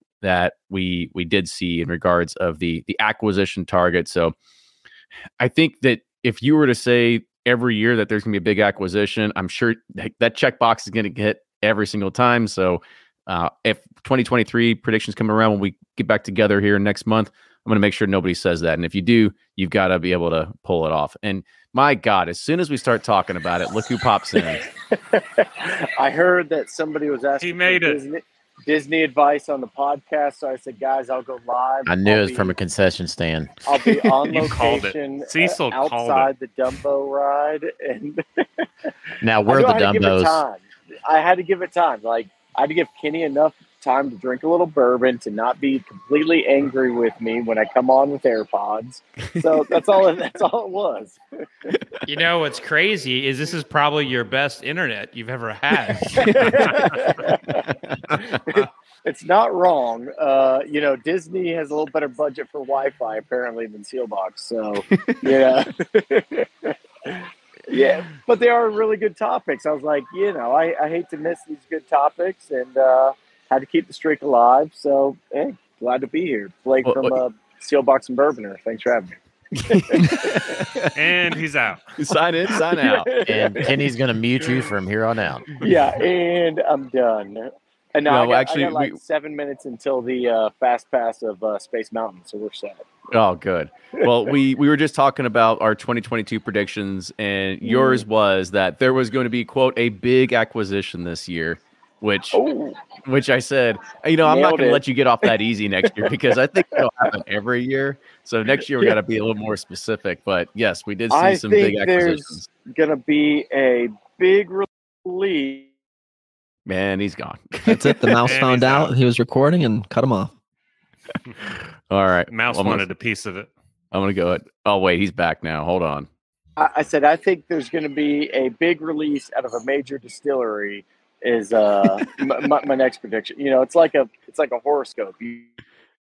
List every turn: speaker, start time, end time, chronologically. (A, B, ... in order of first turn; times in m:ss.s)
0:00.2-0:04.3 A
0:05.4-0:24.6 A
0:25.2-0:32.5 B
0:27.4-0:28.0 C
0:31.9-0:33.5 D
0:33.7-0:38.2 B
0:34.2-0:36.3 C
0:39.2-0:40.4 D
0:39.5-0:51.2 B
0:51.7-0:52.0 A
0:52.0-0:56.9 E
0:56.1-1:19.2 B
0:56.1-0:57.1 A
0:57.9-0:58.4 A
1:05.1-1:05.4 A
1:16.8-1:17.2 A
1:19.6-1:20.9 A
1:19.7-1:20.6 B
1:21.0-1:22.0 C
1:22.0-1:23.2 A
1:22.5-1:23.7 B
1:23.3-1:25.6 D
1:25.6-1:32.9 B
1:28.1-1:29.0 A
1:33.1-1:42.4 A
1:34.0-1:34.3 B
1:37.6-1:38.0 B
1:42.3-1:42.8 B
1:43.0-1:52.5 A
1:44.2-1:47.1 B
1:51.1-1:55.7 B
1:56.7-1:58.2 A
1:57.6-2:00.4 F
1:58.3-1:58.9 C
2:01.9-2:02.8 A
2:02.3-2:03.5 C
2:03.9-2:06.1 A
2:06.6-2:15.6 B